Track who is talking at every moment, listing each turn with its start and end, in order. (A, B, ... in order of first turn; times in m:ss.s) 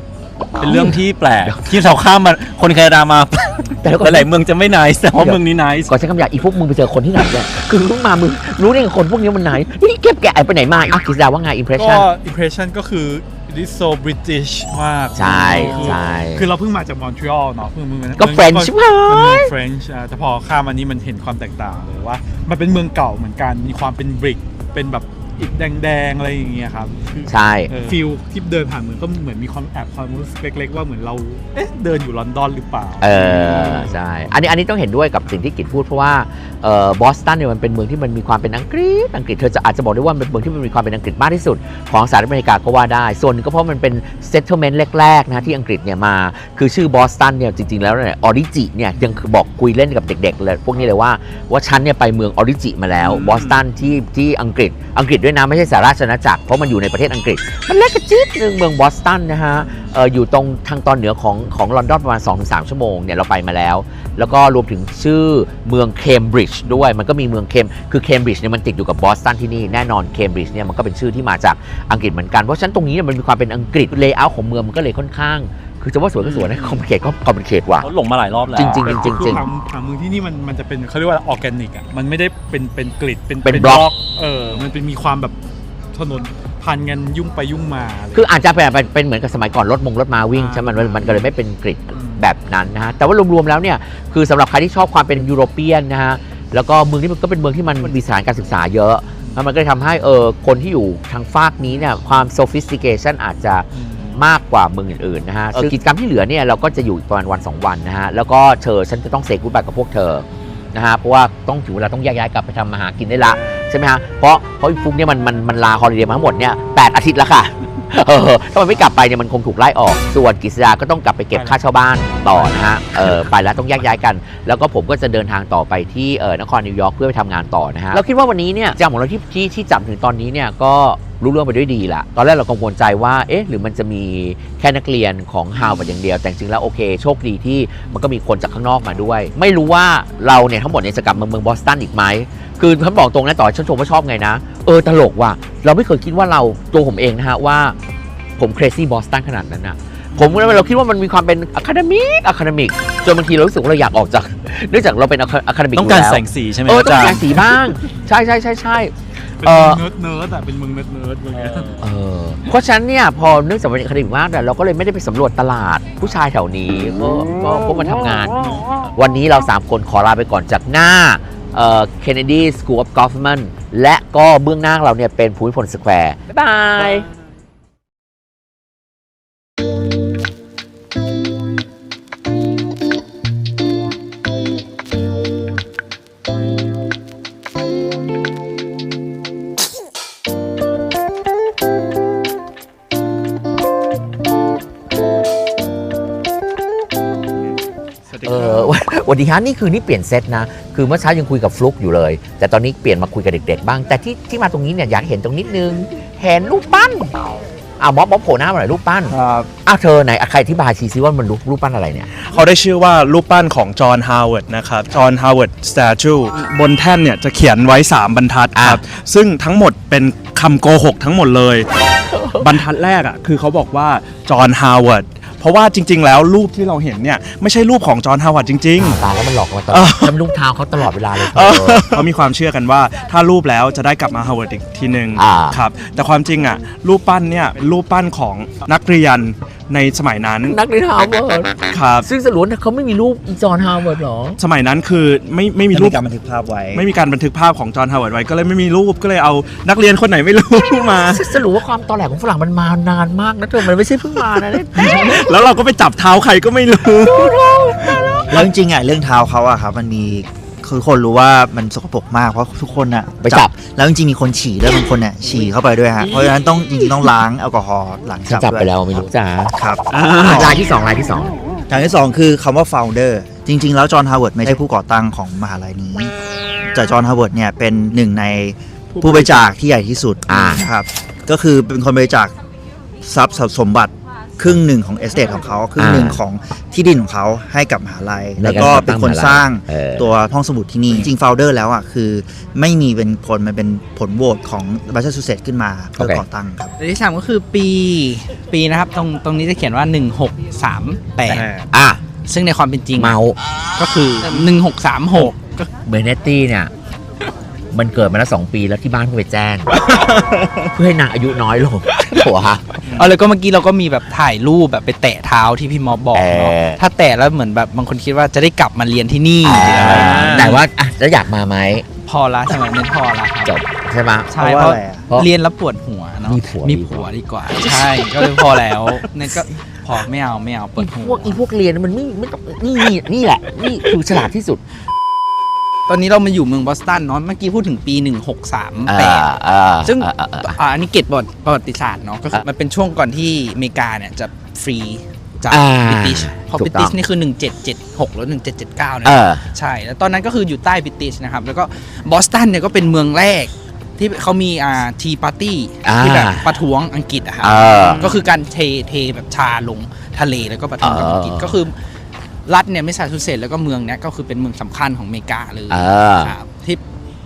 0:00.6-0:00.9 A
0:00.6-0:05.9 B
0:03.8-0:04.3 A
0:05.1-0:12.1 A
0:11.8-0:34.0 C
0:15.1-0:16.5 A
0:15.5-0:16.0 B
0:18.2-0:19.5 A
0:27.3-0:27.7 A
0:33.0-1:17.9 A
0:53.0-0:53.6 C
0:59.6-0:59.9 C
1:17.8-1:19.1 B
1:18.5-1:19.4 A
1:18.6-1:25.4 C
1:23.4-1:23.9 A
1:25.9-1:28.2 C
1:28.1-2:27.8 A
1:30.3-1:31.3 C
1:31.9-1:32.2 C
1:43.7-1:44.2 C
2:01.3-2:01.6 C
2:02.2-2:03.2 C
2:28.4-2:39.8 A
2:30.1-2:30.5 C
2:35.7-2:37.5 B
2:39.4-2:41.8 C
2:41.4-2:41.7 B
2:41.8-2:48.4 A
2:48.9-2:57.1 A
3:18.1-3:18.7 D
3:18.2-3:27.1 A
3:27.8-3:32.1 A
3:29.1-3:29.5 D
3:32.2-3:41.7 D
3:38.5-3:38.8 A
3:42.1-3:42.5 A
3:42.4-3:49.0 D
3:48.8-3:52.0 A
3:49.7-3:50.3 D
3:51.2-4:00.6 D
3:55.2-3:55.6 A
4:00.4-4:04.4 A
4:01.7-4:02.1 D
4:04.4-4:06.0 D
4:05.7-4:06.9 E
4:06.7-4:11.3 D
4:11.1-4:15.3 A
4:14.7-4:18.4 D
4:17.1-4:17.8 A
4:18.3-4:29.0 E
4:23.2-4:23.5 A
4:28.3-4:31.3 A
4:29.5-4:30.6 E
4:30.0-4:30.6 D
4:31.7-4:36.1 E
4:36.7-4:42.3 E
4:39.0-4:39.4 D
4:40.3-4:40.7 A
4:43.0-4:56.7 E
4:45.8-4:46.2 A
4:48.4-4:50.1 A
4:56.8-5:01.5 F
5:01.3-5:01.6 D
5:01.7-5:02.0 A
5:02.1-5:03.2 F
5:03.0-5:03.4 A
5:03.8-5:05.7 F
5:05.8-5:06.7 A
5:07.7-5:09.8 A
5:10.0-5:10.5 D
5:10.7-5:12.8 A
5:12.8-5:20.6 F
5:16.1-5:16.8 A
5:19.4-5:21.8 A
5:19.8-5:20.5 B
5:22.0-5:23.5 F
5:23.4-5:24.3 A
5:24.3-5:31.4 F
5:24.3-5:25.1 E
5:26.2-5:27.1 A
5:30.8-5:34.6 A
5:35.9-5:39.3 F
5:38.9-5:40.6 A
5:39.8-6:01.7 F
5:45.5-5:47.0 A
5:49.0-5:49.4 A
5:55.8-5:56.6 A
5:57.4-5:58.1 A
6:00.8-6:01.6 A
6:02.4-6:06.8 F
6:05.7-6:06.3 A